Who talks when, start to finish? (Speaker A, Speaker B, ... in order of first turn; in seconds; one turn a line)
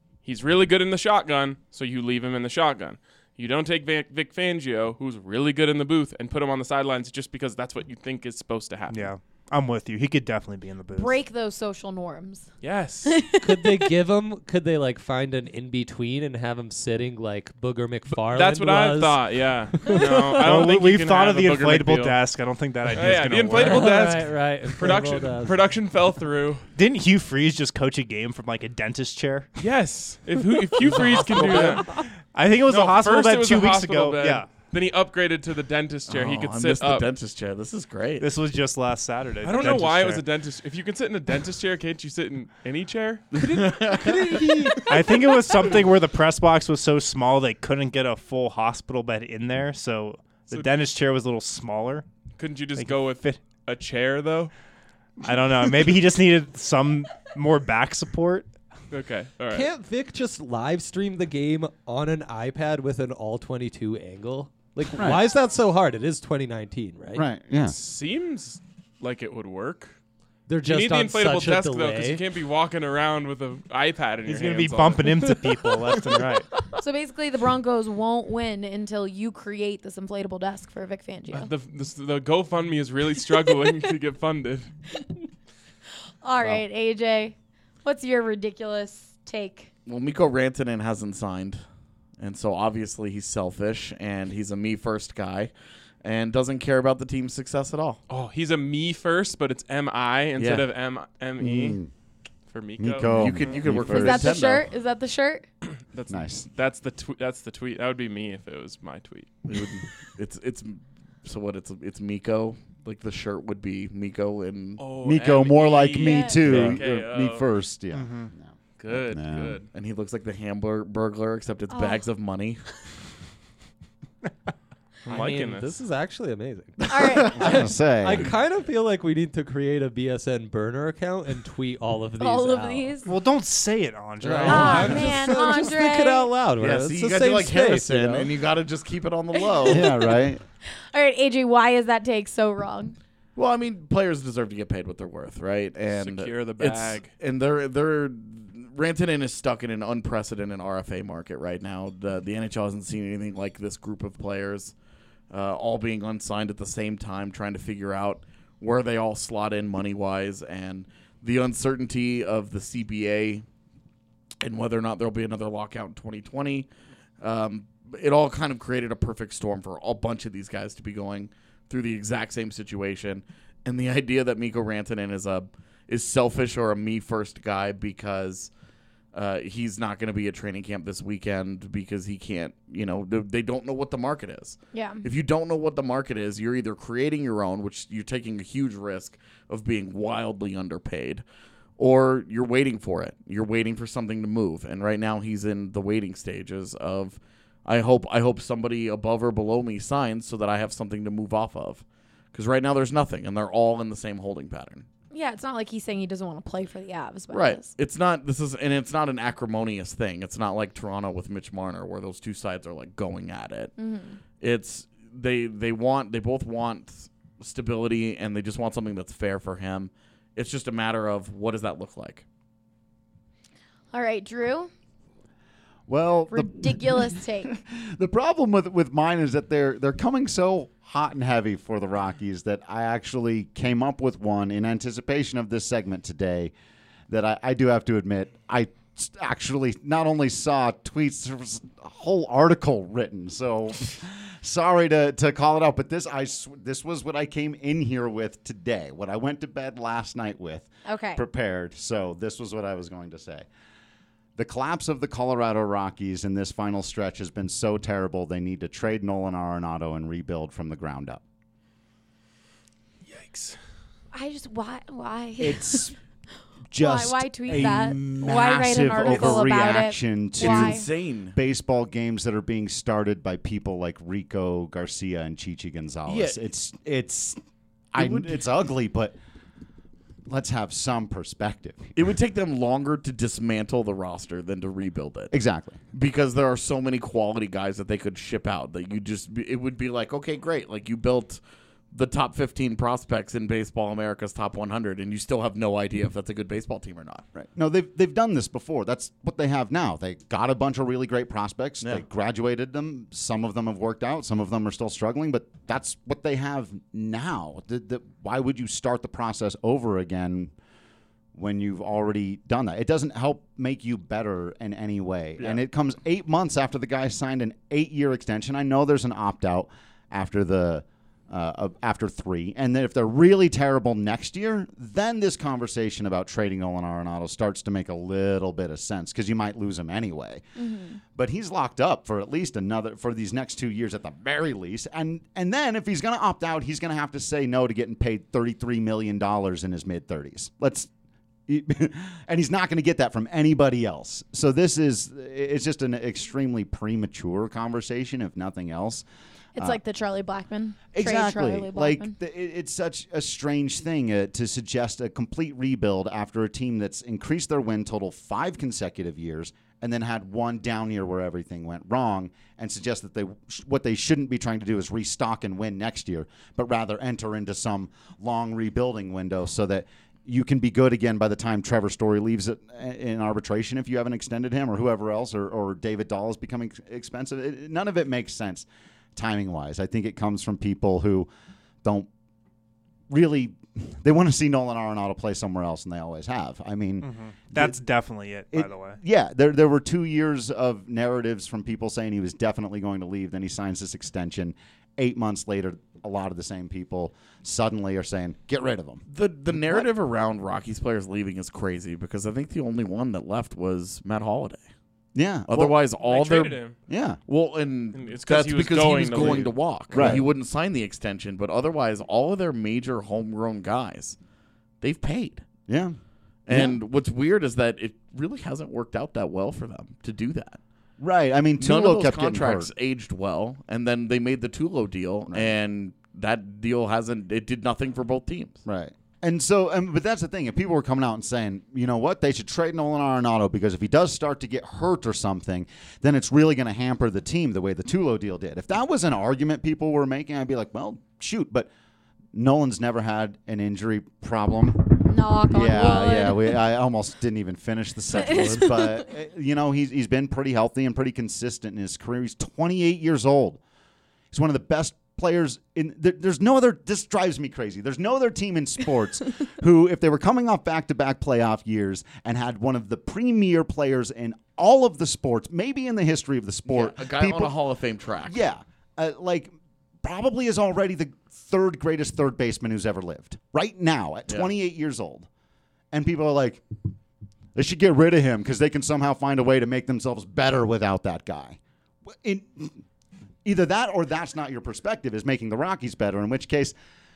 Speaker A: 0.2-9.1
Speaker B: 8.9-11.2
Speaker C: 10.9-12.5
Speaker A: 12.6-13.2
Speaker C: 13.1-13.9
Speaker D: 13.4-19.4
Speaker A: 18.2-22.2
Speaker B: 19.9-24.0
Speaker A: 22.9-26.7
Speaker D: 23.5-25.7
Speaker B: 26.8-29.5
Speaker A: 29.6-31.9
Speaker E: 30.8-31.8
Speaker B: 31.8-34.5
Speaker A: 32.7-37.1
Speaker E: 36.1-38.3
Speaker B: 38.2-40.2
Speaker A: 39.4-44.4
Speaker E: 43.4-44.9
Speaker D: 43.5-45.0
Speaker B: 44.8-52.0
Speaker A: 52.4-54.5
Speaker B: 52.8-53.4
Speaker B: 55.2-58.5
Speaker A: 58.9-59.7
Speaker D: 59.5-67.3
Speaker F: 67.2-67.8
Speaker A: 67.6-70.0
Speaker D: 70.5-72.2
Speaker A: 70.6-76.0
Speaker B: 74.3-76.5
Speaker C: 76.8-81.5
Speaker A: 81.3-84.7
Speaker C: 86.2-89.7
Speaker E: 89.9-91.6
Speaker E: 92.2-95.5
Speaker E: 96.0-98.0
Speaker A: 98.1-101.8
Speaker E: 100.4-100.7
Speaker F: 101.4-101.9
Speaker A: 102.5-103.6
Speaker F: 102.8-104.5
Speaker E: 103.0-104.7
Speaker C: 103.9-105.5
Speaker A: 105.9-109.4
Speaker F: 106.1-106.5
Speaker E: 109.5-114.8
Speaker A: 114.8-117.5
Speaker F: 115.0-119.6
Speaker C: 116.0-116.4
Speaker E: 116.5-116.8
Speaker B: 117.9-118.3
Speaker A: 118.8-119.7
Speaker E: 119.7-122.7
Speaker C: 121.7-122.1
Speaker A: 125.1-125.7
Speaker D: 125.1-133.0
Speaker C: 126.9-127.4
Speaker F: 127.3-128.3
Speaker C: 132.2-133.1
Speaker B: 133.1-135.4
Speaker D: 134.2-138.3
Speaker C: 134.4-136.3
Speaker E: 136.6-140.0
Speaker C: 139.4-139.9
Speaker F: 139.7-140.4
Speaker C: 140.9-143.0
Speaker E: 143.4-154.7
Speaker A: 145.9-147.1
Speaker E: 155.3-163.4
Speaker E: 164.4-166.7
Speaker E: 167.2-178.5
Speaker E: 179.1-191.2
Speaker C: 184.7-185.1
Speaker E: 191.8-204.8
Speaker C: 205.1-207.7
Speaker E: 207.3-213.7
Speaker C: 213.8-214.2
Speaker E: 214.4-222.2
Speaker C: 223.9-224.7
Speaker F: 225.9-236.5
Speaker C: 226.3-227.5
Speaker F: 237.1-253.5
Speaker C: 250.8-251.2
Speaker F: 254.4-261.2
Speaker A: 263.1-263.6
Speaker C: 264.1-265.9
Speaker F: 265.4-266.0
Speaker F: 266.7-277.4
Speaker C: 266.8-270.9
Speaker E: 269.0-269.4
Speaker E: 270.4-271.4
Speaker E: 276.1-276.4
Speaker F: 277.9-279.2
Speaker E: 277.9-278.4
Speaker F: 280.3-281.9
Speaker E: 281.9-285.3
Speaker F: 285.3-285.8
Speaker E: 285.9-291.4
Speaker E: 291.9-297.2
Speaker F: 297.4-310.5
Speaker F: 311.4-330.4
Speaker C: 330.6-331.0
Speaker F: 331.1-340.9
Speaker F: 341.5-349.0
Speaker C: 349.6-352.1
Speaker F: 350.9-381.3
Speaker F: 381.8-382.1
Speaker F: 383.1-387.8
Speaker B: 387.0-389.0
Speaker F: 388.5-399.0
Speaker E: 399.1-404.6
Speaker F: 399.6-399.9
Speaker F: 405.1-405.8
Speaker E: 405.5-406.6
Speaker A: 406.1-406.8
Speaker F: 406.9-407.2
Speaker E: 407.3-414.2
Speaker A: 407.9-410.2
Speaker F: 409.2-410.3
Speaker E: 414.8-415.5
Speaker F: 415.7-416.0
Speaker E: 416.5-420.6
Speaker F: 416.5-416.8
Speaker F: 421.0-422.7
Speaker E: 421.6-428.6
Speaker F: 425.3-425.5
Speaker F: 428.6-441.7
Speaker F: 442.3-453.6
Speaker C: 445.1-446.6
Speaker C: 448.1-448.9
Speaker F: 454.3-467.6
Speaker E: 466.7-468.4
Speaker F: 468.2-475.3
Speaker F: 475.9-476.6
Speaker F: 477.6-482.8
Speaker F: 483.4-486.7